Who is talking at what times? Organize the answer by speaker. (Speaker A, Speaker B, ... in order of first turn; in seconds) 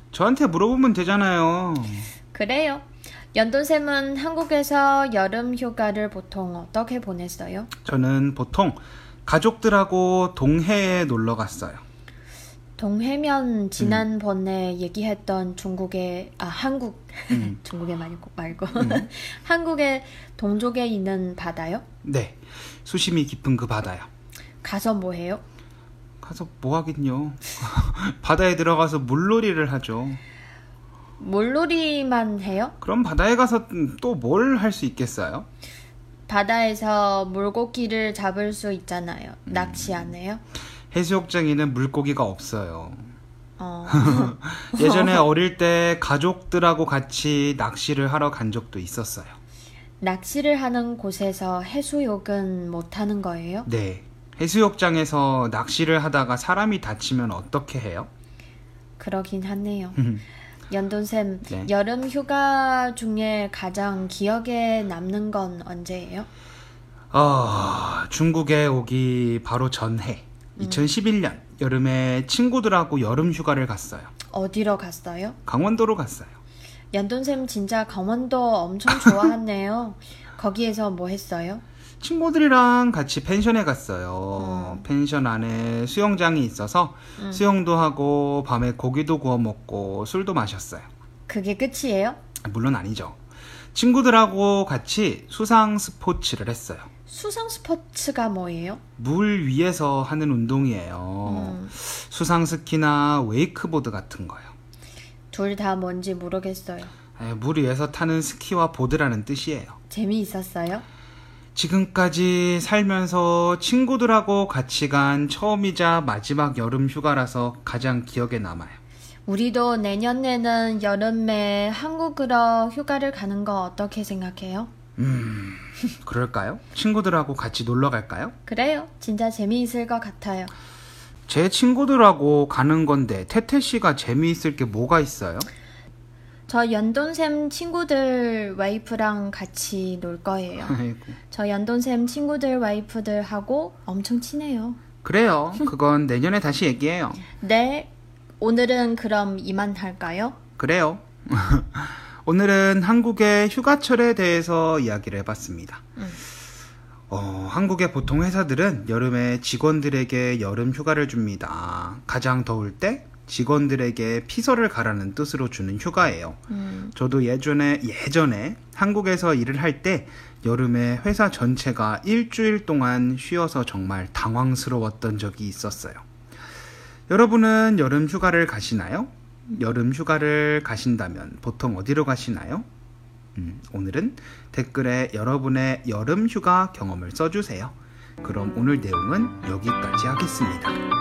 Speaker A: 0.1-2.1, 7.8-11.8, 13.8-14.1, 17.3-17.6, 18.8-19.0, 22.0-24.1, 26.2-30.2, 32.8-35.5, 39.5-40.1, 40.9-43.0, 43.9-49.3, 53.6-58.1, 60.0-60.2, 67.1-74.1, 75.5-76.3, 82.0-90.9, 92.4-93.2, 93.7-96.9, 99.0-104.5, 107.2-109.8, 111.5-118.8, 125.0-128.3, 131.3-135.5, 140.6-141.1, 145.0-147.2, 150.6-155.8, 157.1-166.4, 166.9-176.0, 177.1-182.7, 183.3-190.8
Speaker B: 2.3-7.7, 12.8-21.8, 24.6-25.4, 31.2-32.7, 36.3-40.4, 43.6-45.2, 50.0-53.7, 59.0-60.0, 60.7-66.3, 70.6-70.9, 74.3-75.4, 76.9-81.6, 84.4-84.8, 87.2-87.4, 91.3-92.2, 97.1-98.8, 101.2-101.7, 105.3-106.9, 109.9-110.8, 119.2-124.7, 128.4-130.5, 136.5-140.8, 141.3-144.8, 147.4-150.4, 166.5-166.9